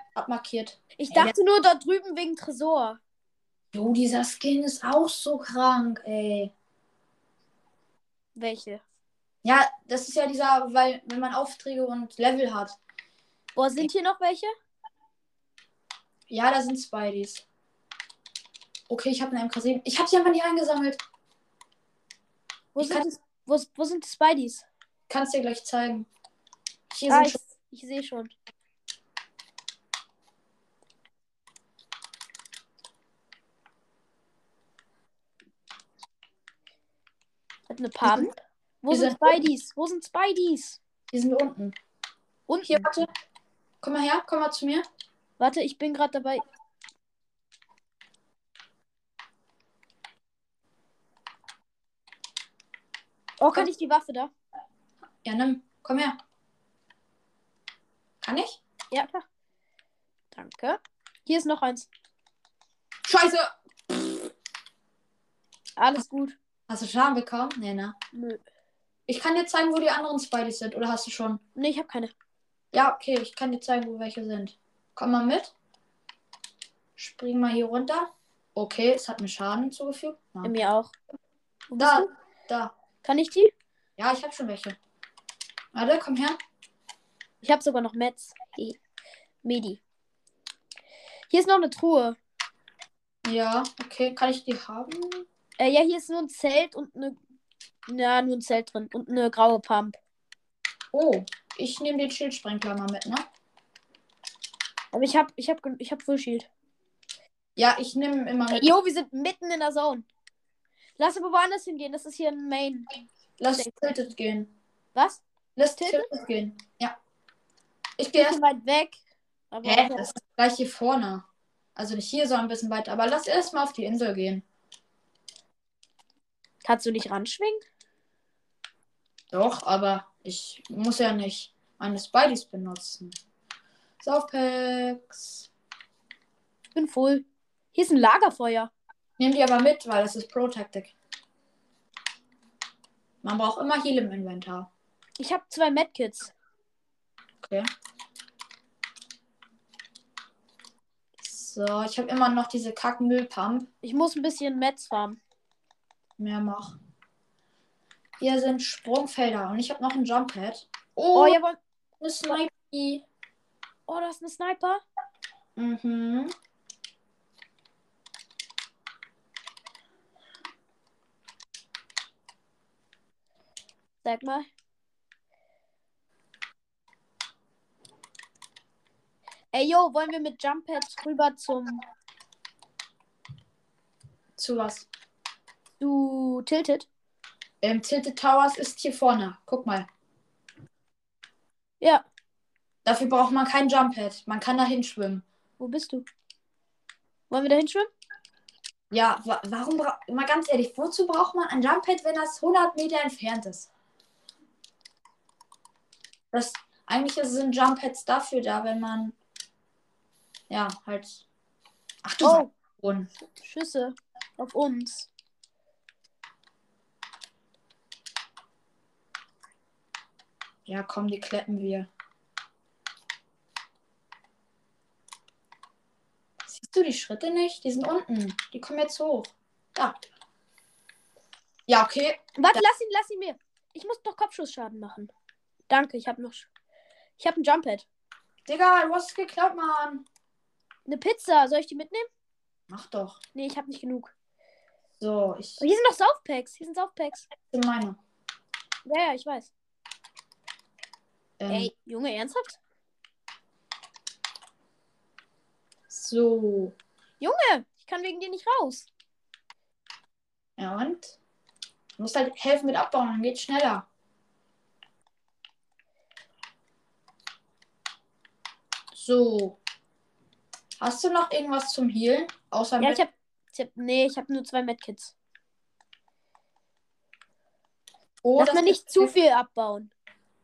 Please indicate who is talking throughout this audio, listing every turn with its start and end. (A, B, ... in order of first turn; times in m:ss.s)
0:00.1-0:01.3 A
0:01.0-0:03.0 B
0:03.7-0:06.5 A
0:08.4-0:08.8 B
0:09.4-0:12.8 A
0:13.6-0:14.5 B
0:16.3-0:17.4 A
0:18.9-0:21.0 A
0:22.7-0:24.6 B
0:22.8-0:23.1 A
0:25.1-0:26.1 A
0:26.9-0:27.4 A
0:27.1-0:28.3 B
0:37.7-0:40.8 B
0:38.0-0:38.3 A
0:38.9-0:39.5 A
0:41.1-0:41.8 A
0:42.5-0:42.8 B
0:42.6-0:43.1 A
0:43.8-0:44.8 A
0:45.4-0:46.4 B
0:53.4-0:54.3 B
0:55.2-0:56.2 A
0:58.2-0:58.6 A
0:58.9-0:59.2 B
1:00.3-1:01.9 B
1:03.0-1:04.3 A
1:05.8-1:06.4 B
1:06.7-1:07.9 A
1:08.1-1:08.4 B
1:09.1-1:11.4 A
1:11.6-1:12.1 B
1:12.7-1:15.5 A
1:17.0-1:20.5 A
1:20.4-1:20.9 B
1:21.7-1:22.1 B
1:21.8-1:22.7 A
1:23.0-1:23.5 B
1:24.0-1:24.8 A
1:25.7-1:26.4 A
1:27.4-1:28.8 B
1:29.4-1:29.8 B
1:31.3-1:32.2 B
1:33.2-1:35.2 A
1:35.6-1:37.2 B
1:37.9-1:40.0 B
1:40.9-1:43.2 A
1:44.9-1:46.5 B
1:47.6-1:48.7 A
1:48.5-1:50.1 B
1:51.0-1:52.9 B
1:53.4-1:54.5 A
1:54.9-1:55.2 B
1:55.6-1:56.9 A
1:55.8-1:56.1 B
1:58.0-1:58.4 A
1:58.1-1:59.0 B
1:59.5-2:00.1 B
1:59.6-2:01.2 A
2:01.8-2:04.4 A
2:06.6-2:07.6 B
2:09.3-2:13.1 A
2:14.0-2:15.5 A
2:16.7-2:18.7 B
2:19.2-2:20.9 A
2:23.2-2:24.7 A
2:25.2-2:26.3 B
2:27.4-2:27.7 A
2:31.2-2:33.7 A
2:33.8-2:35.2 B
2:36.2-2:36.8 A
2:38.2-2:41.4 A
2:41.1-2:41.6 B
2:42.0-2:43.0 A
2:43.9-2:44.8 B
2:45.6-2:46.3 A
2:54.0-2:54.5 B
2:59.5-3:01.8 B
3:04.4-3:04.9 A
3:05.8-3:06.9 B
3:07.6-3:09.9 A
3:11.8-3:12.0 B
3:12.8-3:15.2 A
3:15.6-3:16.0 B
3:17.3-3:17.9 B
3:18.9-3:23.7 A
3:26.3-3:29.2 A
3:30.5-3:31.2 A
3:32.0-3:33.1 A
3:32.2-3:32.5 B
3:33.4-3:35.1 B
3:40.6-3:41.9 A
3:46.4-3:50.0 A
3:51.7-3:52.6 A
3:52.4-3:55.1 B
3:55.7-3:56.5 B
3:57.2-3:57.8 B
3:58.5-4:00.0 A
4:00.8-4:02.1 B
4:02.7-4:03.2 A
4:03.3-4:04.1 B
4:05.0-4:05.6 A
4:05.6-4:07.3 B
4:07.5-4:08.0 A
4:08.8-4:09.5 B
4:11.4-4:11.7 A
4:11.5-4:12.6 B
4:15.9-4:16.7 A
4:17.2-4:18.9 B
4:20.6-4:21.2 A
4:22.0-4:23.8 A
4:28.9-4:29.6 A
4:30.8-4:33.0 A
4:32.8-4:35.1 B
4:38.2-4:39.1 A
4:38.4-4:39.9 B